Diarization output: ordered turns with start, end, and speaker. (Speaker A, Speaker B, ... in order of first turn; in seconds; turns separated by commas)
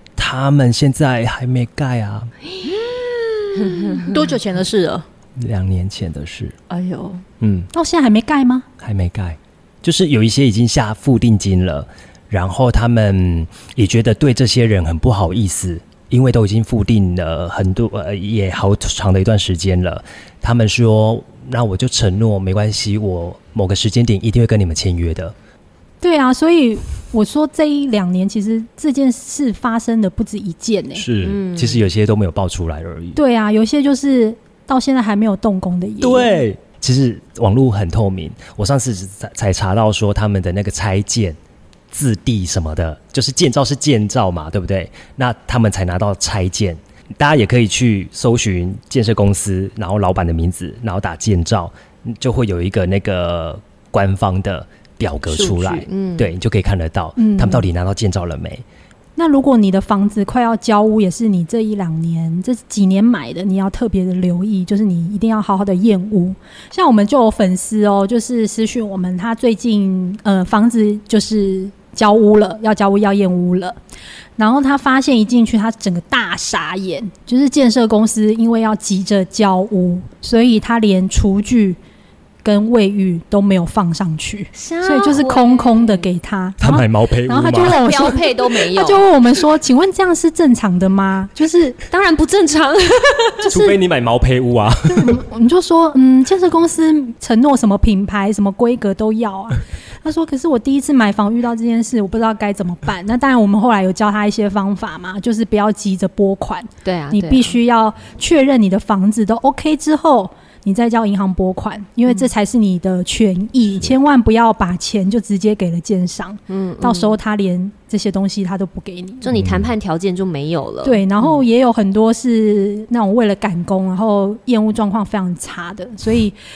Speaker A: 0.2-2.3, Speaker B: 2.6-5.0, Speaker C: 3.5-4.3, Speaker A: 5.4-6.5, Speaker B: 6.7-7.2, Speaker A: 7.4-7.7, Speaker D: 7.7-8.7, Speaker A: 8.8-25.3, Speaker D: 26.0-31.1, Speaker A: 30.9-33.2, Speaker C: 31.2-31.8, Speaker D: 33.1-36.4, Speaker A: 36.0-41.4, Speaker A: 41.9-58.6, Speaker C: 55.3-56.3, Speaker D: 57.2-57.6, Speaker D: 59.2-73.8, Speaker D: 74.4-81.8, Speaker D: 82.4-91.8, Speaker C: 84.5-86.1, Speaker A: 86.6-87.9, Speaker C: 87.6-89.0, Speaker C: 91.9-93.8, Speaker A: 93.5-95.2, Speaker D: 94.9-119.3, Speaker C: 106.8-107.6, Speaker C: 116.5-117.2, Speaker C: 119.2-121.4, Speaker A: 119.3-119.7, Speaker D: 120.8-126.3